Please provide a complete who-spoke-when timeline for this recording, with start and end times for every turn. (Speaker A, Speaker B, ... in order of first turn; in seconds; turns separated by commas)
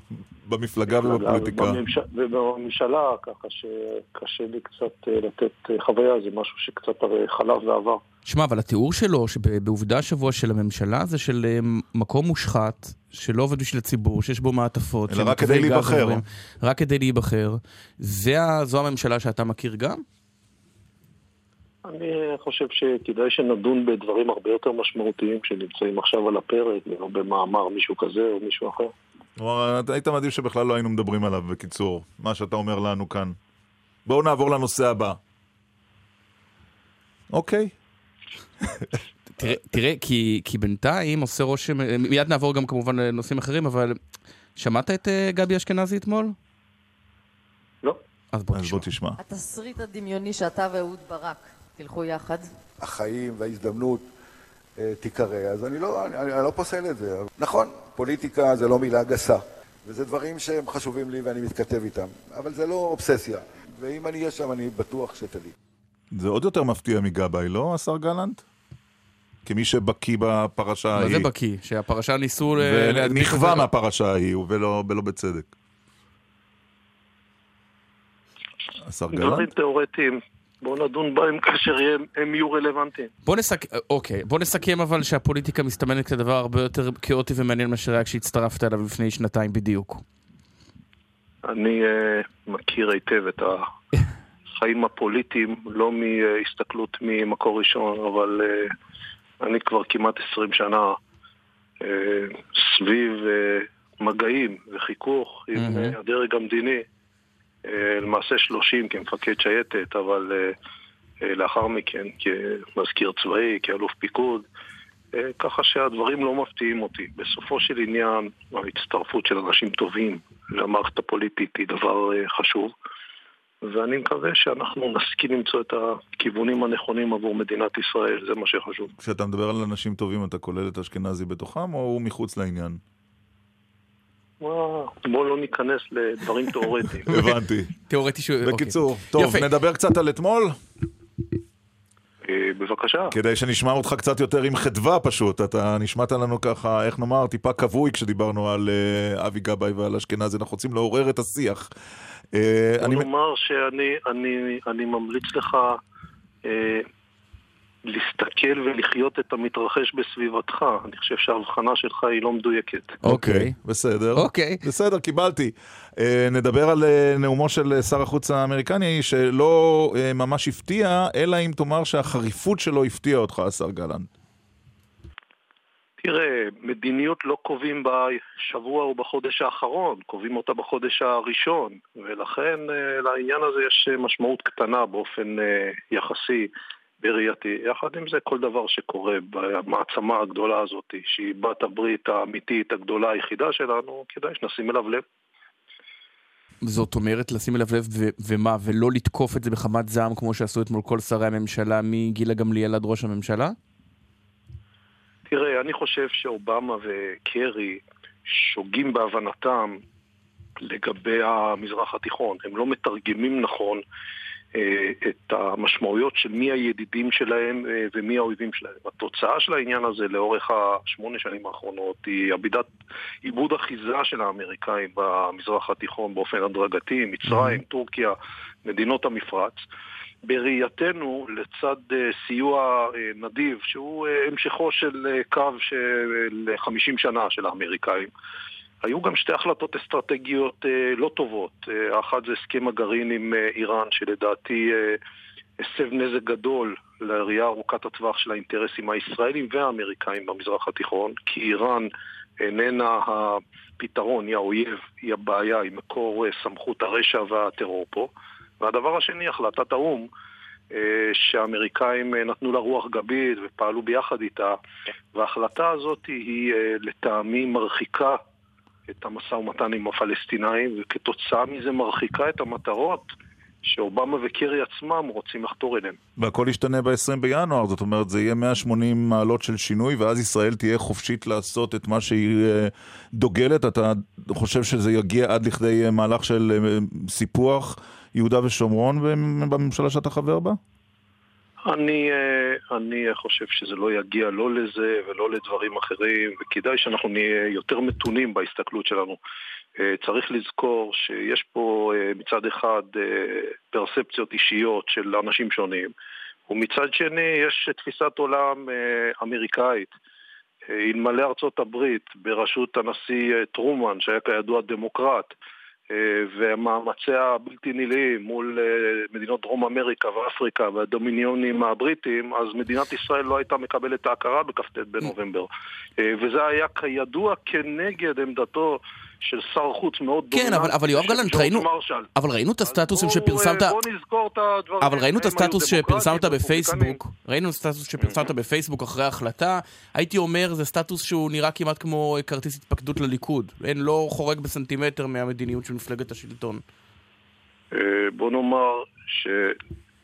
Speaker A: 0.4-1.8, Speaker B: 0.9-8.0, Speaker C: 8.3-20.0, Speaker A: 15.1-16.2, Speaker B: 21.9-28.9, Speaker A: 29.4-33.4, Speaker A: 34.1-35.2, Speaker A: 37.3-37.7, Speaker C: 39.4-44.0, Speaker C: 44.6-46.4, Speaker C: 48.3-48.9, Speaker A: 48.5-49.2, Speaker D: 49.2-52.5, Speaker E: 52.8-54.1, Speaker E: 54.8-65.5, Speaker A: 66.1-68.4, Speaker A: 69.5-71.3, Speaker C: 71.0-73.7, Speaker A: 72.5-75.5, Speaker A: 78.9-79.5, Speaker B: 79.1-83.1, Speaker C: 83.3-90.0, Speaker B: 91.5-93.6, Speaker B: 94.6-98.7, Speaker B: 99.4-101.0, Speaker B: 101.8-106.8, Speaker C: 105.6-106.0, Speaker B: 107.7-110.5, Speaker B: 111.2-114.5, Speaker B: 115.2-122.7, Speaker B: 123.7-128.9, Speaker A: 129.0-132.8, Speaker B: 134.4-137.1, Speaker A: 137.1-137.7, Speaker C: 137.9-139.5, Speaker A: 138.4-140.6, Speaker B: 142.2-143.1, Speaker A: 143.1-151.7, Speaker A: 152.3-153.1, Speaker B: 152.8-155.8, Speaker B: 156.4-156.8, Speaker B: 157.9-163.0, Speaker C: 163.0-163.6, Speaker A: 163.0-174.1, Speaker C: 164.2-164.6, Speaker B: 176.0-186.5, Speaker B: 187.0-195.0, Speaker C: 196.6-203.6, Speaker B: 205.3-209.8, Speaker B: 210.6-213.8, Speaker B: 214.6-222.7, Speaker B: 223.2-228.1, Speaker C: 227.3-227.6, Speaker B: 228.7-229.6, Speaker B: 230.3-238.1, Speaker B: 238.8-245.0, Speaker B: 245.6-251.9, Speaker B: 252.4-258.1, Speaker B: 258.6-260.1, Speaker B: 260.7-264.6, Speaker B: 265.1-268.2, Speaker B: 268.9-273.1, Speaker B: 273.6-276.0, Speaker A: 276.2-290.6, Speaker B: 291.7-299.2, Speaker B: 299.8-305.9, Speaker B: 306.5-309.9, Speaker B: 310.7-315.3, Speaker B: 315.9-325.5, Speaker B: 326.0-332.1, Speaker C: 330.3-333.8, Speaker B: 332.7-337.0, Speaker C: 334.8-346.6, Speaker B: 347.7-349.6